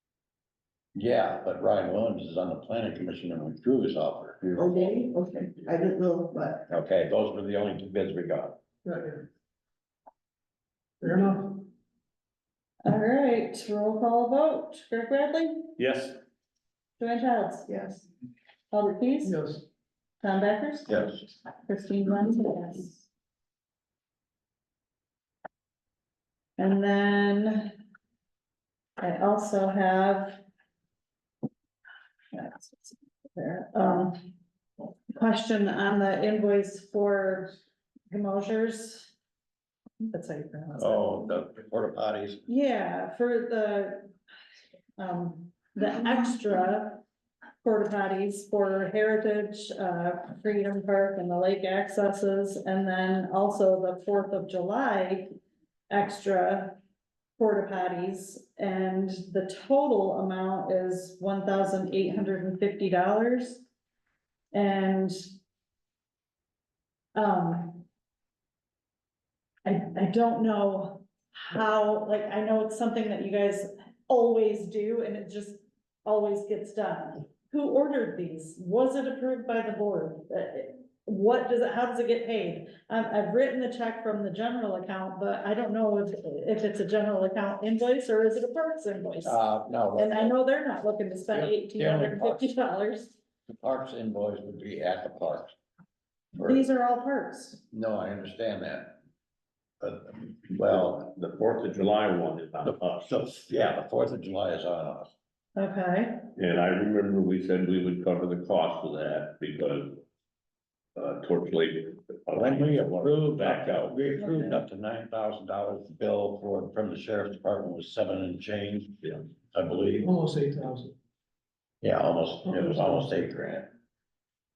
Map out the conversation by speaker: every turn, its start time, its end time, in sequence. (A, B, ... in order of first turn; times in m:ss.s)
0:01.0-0:04.5 A
0:04.6-0:06.7 B
0:06.7-0:08.6 A
0:08.8-0:09.2 C
0:11.0-0:11.7 C
0:12.8-0:15.7 D
0:15.8-0:16.2 E
0:17.0-0:17.8 D
0:17.7-0:18.0 B
0:18.7-0:19.4 D
0:19.2-0:19.6 C
0:20.2-0:23.0 D
0:20.9-0:21.2 A
0:26.6-0:27.7 D
0:29.0-0:30.4 D
0:32.3-0:34.2 D
0:35.1-0:37.5 D
0:38.1-0:39.1 D
0:40.1-0:41.3 D
0:40.8-0:42.4 A
0:42.5-0:44.1 D
0:45.0-0:47.0 D
0:47.6-0:55.3 D
0:55.9-0:56.8 D
0:57.4-1:03.6 D
1:04.5-1:05.2 D
1:07.2-1:07.8 D
1:09.6-1:29.4 D
1:29.2-1:30.3 A
1:29.9-1:33.2 D
1:31.3-1:32.5 A
1:33.5-1:35.5 A
1:36.4-1:37.6 D
1:37.7-1:39.0 A
1:39.8-1:41.1 A
1:40.6-1:43.2 E
1:42.6-1:45.1 A
1:45.6-1:46.3 D
1:46.4-1:50.0 E
1:51.0-1:54.6 E
1:52.3-2:00.1 A
2:00.0-2:00.9 C
2:01.8-2:03.7 A
2:02.5-2:02.9 C